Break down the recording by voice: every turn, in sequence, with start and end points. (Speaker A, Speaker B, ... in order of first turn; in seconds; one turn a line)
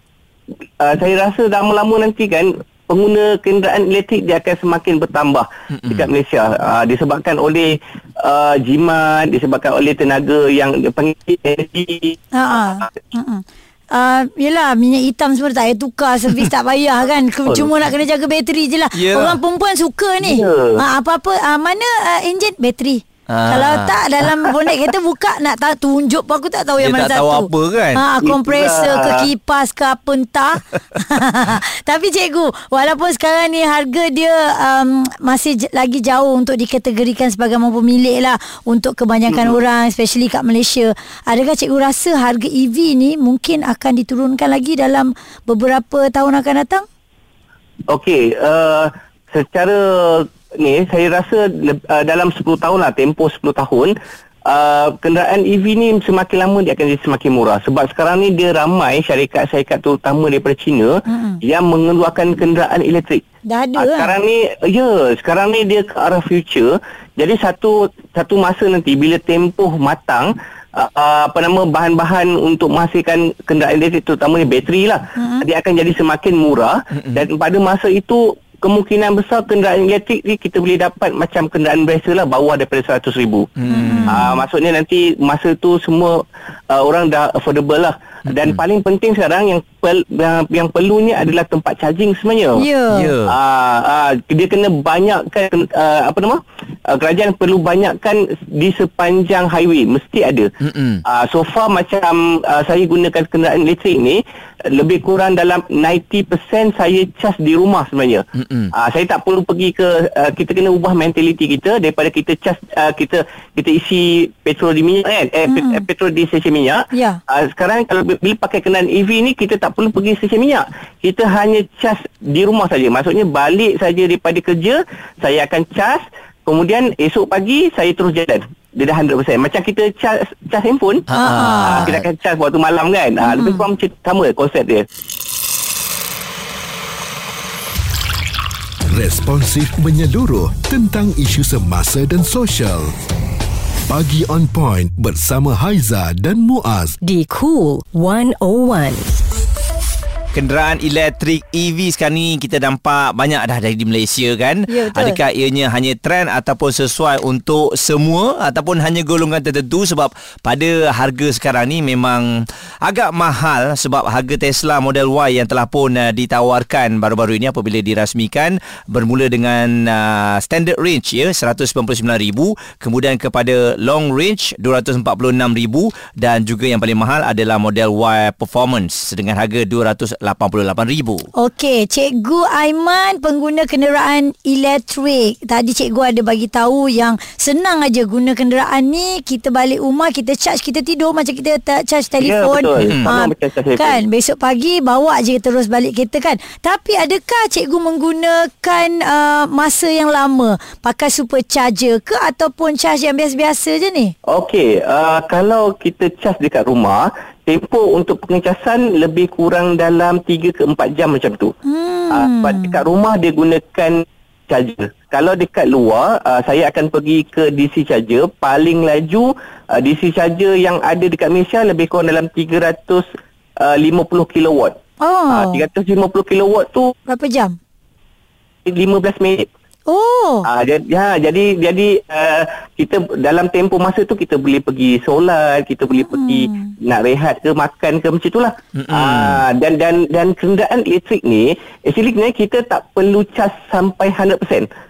Speaker A: 0.8-12.9
Speaker B: 5.7-6.1
Speaker C: 12.3-46.8
Speaker B: 18.9-19.4
Speaker A: 20.2-20.8
Speaker B: 23.3-24.0
Speaker B: 26.8-28.0
Speaker A: 28.2-29.3
Speaker A: 39.3-39.6
Speaker A: 47.9-53.9
Speaker A: 54.5-63.2
Speaker C: 61.1-61.4
Speaker C: 63.5-64.1
Speaker A: 63.8-83.5
Speaker C: 75.2-75.5
Speaker B: 77.0-77.2
Speaker B: 83.6-84.2
Speaker C: 83.7-84.4
Speaker A: 84.0-92.7
Speaker B: 88.3-88.6
Speaker C: 92.5-93.1
Speaker B: 92.9-93.3
Speaker A: 93.3-100.5
Speaker B: 100.6-101.0
Speaker A: 101.1-131.1
Speaker B: 108.4-108.7
Speaker C: 115.5-115.9
Speaker C: 116.9-117.2
Speaker B: 131.1-132.1
Speaker C: 131.1-131.9
Speaker A: 131.6-134.8
Speaker C: 133.2-133.6
Speaker D: 138.9-142.9
Speaker D: 143.9-147.0
Speaker E: 147.0-149.1
Speaker B: 150.3-162.3
Speaker C: 154.7-155.2
Speaker B: 162.8-181.2
Speaker C: 181.3-204.1
Speaker A: 192.2-194.0
Speaker B: 192.8-193.1
Speaker A: 204.3-211.5
Speaker C: 211.7-212.8
Speaker A: 212.1-223.0
Speaker A: 223.6-224.8
Speaker C: 225.0-225.6
Speaker A: 225.3-226.9
Speaker C: 227.1-227.6
Speaker A: 228.7-229.5
Speaker C: 229.9-230.5
Speaker A: 230.4-244.7
Speaker C: 236.1-236.7
Speaker B: 238.7-239.4